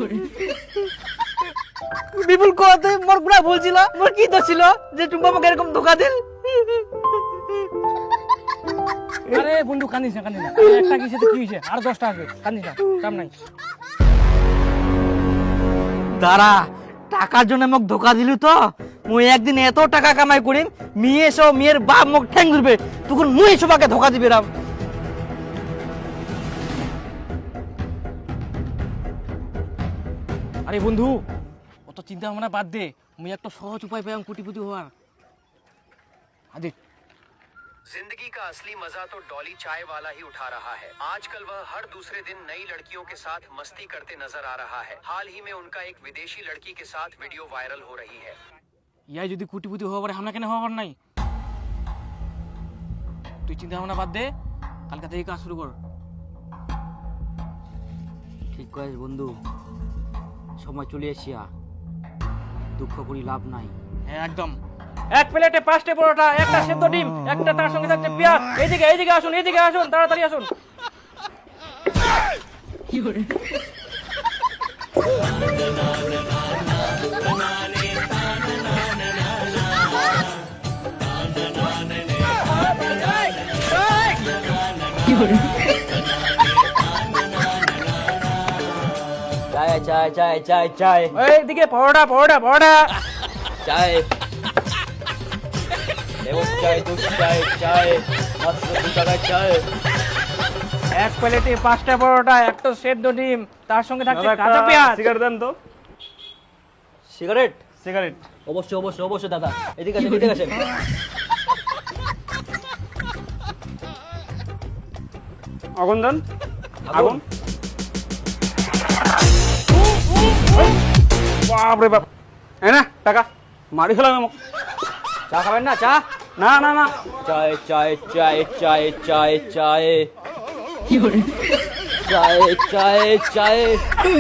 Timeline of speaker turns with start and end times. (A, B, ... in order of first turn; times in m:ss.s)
0:02.2-0:06.3 A
0:09.3-0:13.3 B
0:16.1-0:24.5 A
0:30.7-0:31.2 B
0:31.9-0:34.9 B
0:37.9-0:48.4 C
0:49.1-0:51.0 B
0:53.5-0:54.3 B
0:54.9-0:55.8 B
0:58.5-0:59.4 A
1:00.6-1:01.5 A
1:02.8-1:03.7 A
1:04.1-1:04.6 B
1:05.2-1:10.5 B
1:29.5-1:31.2 A
1:31.2-1:32.8 B
1:33.6-1:34.1 A
1:36.2-1:39.6 A
1:40.9-1:45.0 B
1:44.1-1:45.5 D
1:47.1-1:47.6 A
1:48.4-1:50.6 A
1:55.8-1:56.2 D
1:56.9-1:57.2 A
2:01.5-2:02.0 D
2:02.6-2:04.3 D
2:05.3-2:06.0 A
2:06.4-2:06.9 D
2:07.2-2:10.1 A
2:12.0-2:13.8 A